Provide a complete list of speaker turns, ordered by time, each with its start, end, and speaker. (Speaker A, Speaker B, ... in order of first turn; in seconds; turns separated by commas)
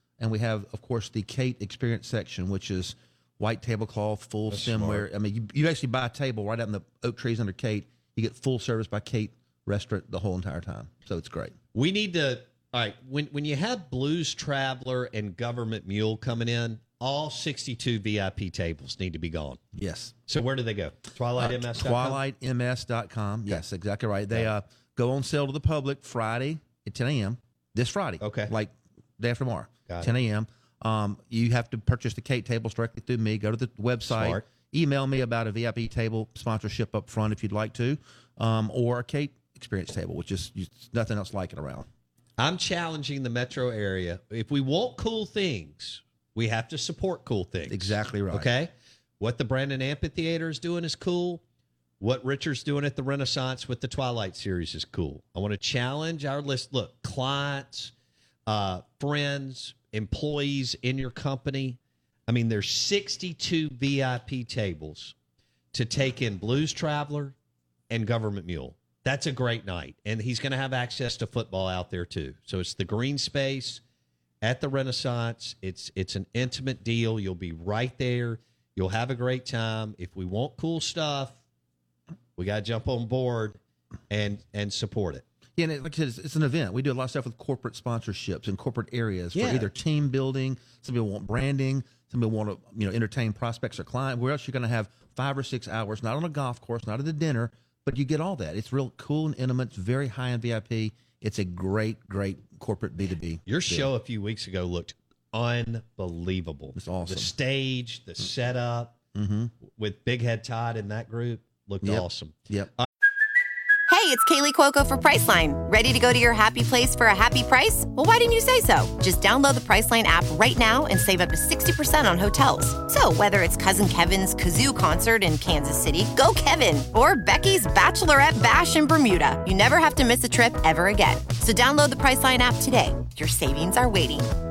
Speaker A: 0.2-11.5, Speaker B: 4.5-5.1, Speaker B: 11.7-19.6, Speaker A: 19.7-20.1, Speaker B: 20.3-22.2, Speaker A: 21.4-41.9, Speaker B: 28.2-28.5, Speaker B: 34.1-34.5, Speaker B: 42.4-51.4, Speaker A: 47.7-48.5, Speaker B: 52.0-57.9, Speaker B: 58.5-65.1, Speaker B: 65.7-67.3, Speaker B: 67.9-73.8, Speaker B: 74.4-81.4, Speaker B: 82.4-83.6, Speaker B: 84.1-85.2, Speaker A: 85.6-103.9, Speaker B: 89.3-89.7, Speaker B: 103.5-109.0, Speaker A: 106.8-107.3, Speaker A: 109.1-109.5, Speaker B: 109.8-112.9, Speaker A: 111.8-112.7, Speaker C: 113.9-134.3